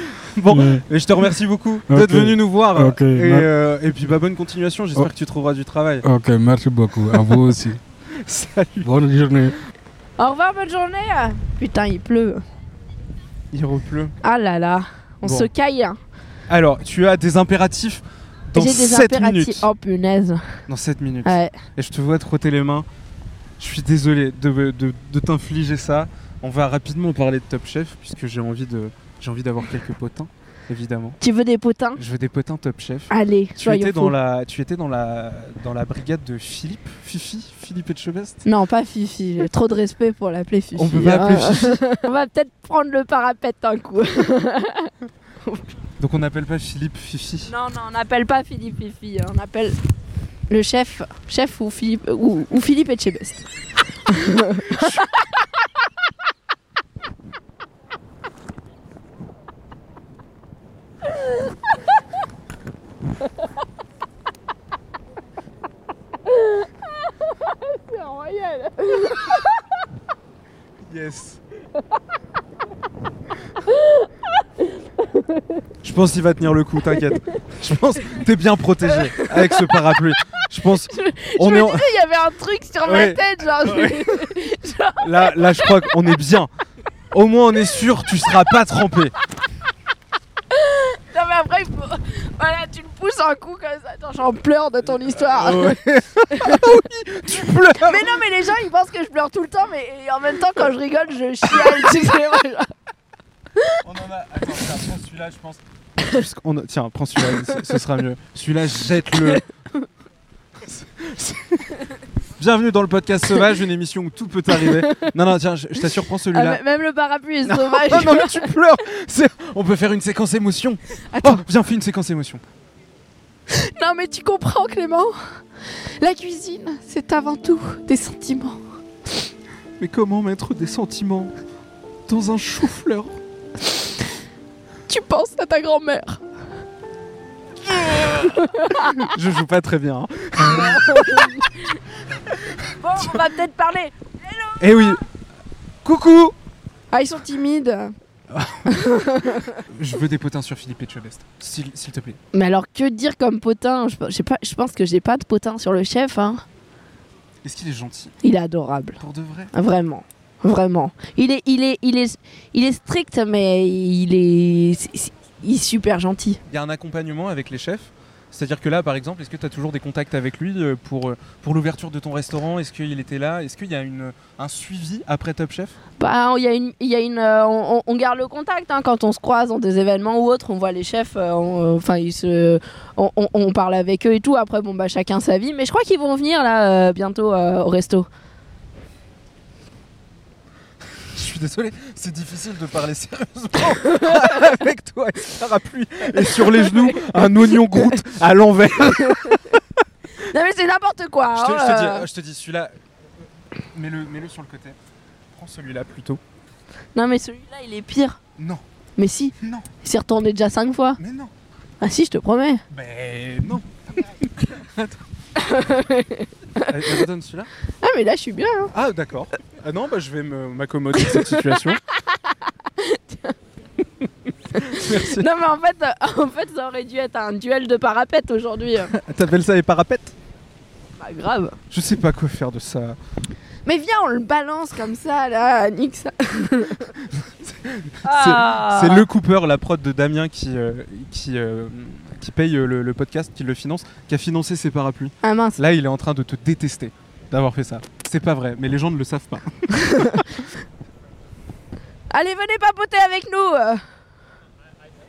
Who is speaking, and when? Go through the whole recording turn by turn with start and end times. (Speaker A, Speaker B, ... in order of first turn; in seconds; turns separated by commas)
Speaker A: 0.2-6.0, Speaker B: 0.5-0.8, Speaker B: 1.9-3.5, Speaker B: 6.0-7.8, Speaker A: 8.1-8.9, Speaker B: 8.8-9.6, Speaker C: 10.2-12.4, Speaker A: 13.5-14.1, Speaker C: 14.2-16.0, Speaker A: 15.2-15.5, Speaker A: 16.5-19.7, Speaker C: 18.5-20.6, Speaker A: 20.7-22.9, Speaker C: 21.2-21.5, Speaker A: 23.6-31.2, Speaker C: 31.2-32.0, Speaker A: 31.9-38.4, Speaker C: 33.1-34.1, Speaker C: 38.4-44.9, Speaker A: 40.8-41.8, Speaker A: 46.0-47.5, Speaker C: 47.4-49.8, Speaker C: 50.5-53.5, Speaker C: 54.0-55.2, Speaker A: 54.7-55.0, Speaker C: 66.3-66.6, Speaker C: 67.4-69.5, Speaker A: 70.8-71.4, Speaker C: 73.6-74.1, Speaker C: 75.1-75.4, Speaker A: 75.8-81.9, Speaker C: 79.0-80.0, Speaker C: 80.9-85.9, Speaker A: 82.8-84.3, Speaker A: 85.0-86.5, Speaker A: 87.1-89.1, Speaker C: 90.5-96.8, Speaker A: 95.1-98.2, Speaker C: 97.7-102.7, Speaker A: 101.5-101.9, Speaker A: 103.8-109.4, Speaker A: 110.6-111.7, Speaker A: 112.4-116.6, Speaker C: 114.6-115.1, Speaker C: 116.3-118.5, Speaker A: 117.4-122.4, Speaker C: 121.1-121.4, Speaker C: 123.5-125.1, Speaker C: 126.0-128.6, Speaker A: 129.8-131.3, Speaker A: 132.1-133.2, Speaker C: 134.9-136.2, Speaker A: 137.7-141.4, Speaker C: 138.0-139.1, Speaker C: 140.4-141.8, Speaker C: 142.7-145.0, Speaker A: 144.6-145.0, Speaker A: 145.8-146.3, Speaker C: 146.9-147.9, Speaker A: 148.3-148.8, Speaker C: 148.7-149.6, Speaker A: 149.7-152.2, Speaker C: 152.3-156.4, Speaker A: 157.4-158.1, Speaker C: 158.2-159.0, Speaker A: 159.0-159.5, Speaker C: 159.5-166.4, Speaker A: 166.5-175.8, Speaker C: 176.0-188.1, Speaker A: 191.1-199.6, Speaker C: 196.4-197.2, Speaker C: 199.0-199.5, Speaker C: 200.2-202.1, Speaker A: 201.3-202.7, Speaker A: 203.7-204.8, Speaker A: 205.3-206.2, Speaker C: 206.9-208.2, Speaker C: 209.0-211.0, Speaker A: 209.4-209.7, Speaker A: 211.0-211.3, Speaker C: 211.8-212.6, Speaker A: 212.7-215.0, Speaker C: 215.3-217.0, Speaker A: 216.7-217.5, Speaker C: 217.8-218.7, Speaker A: 218.7-221.8, Speaker C: 221.0-221.4, Speaker C: 221.9-223.3, Speaker C: 224.5-228.9, Speaker A: 224.6-225.3, Speaker A: 228.9-230.1, Speaker C: 231.0-231.6, Speaker A: 231.7-233.0, Speaker C: 233.7-236.9, Speaker A: 237.1-250.2, Speaker C: 238.0-239.1, Speaker C: 245.2-245.6, Speaker C: 249.7-250.2, Speaker C: 252.1-253.8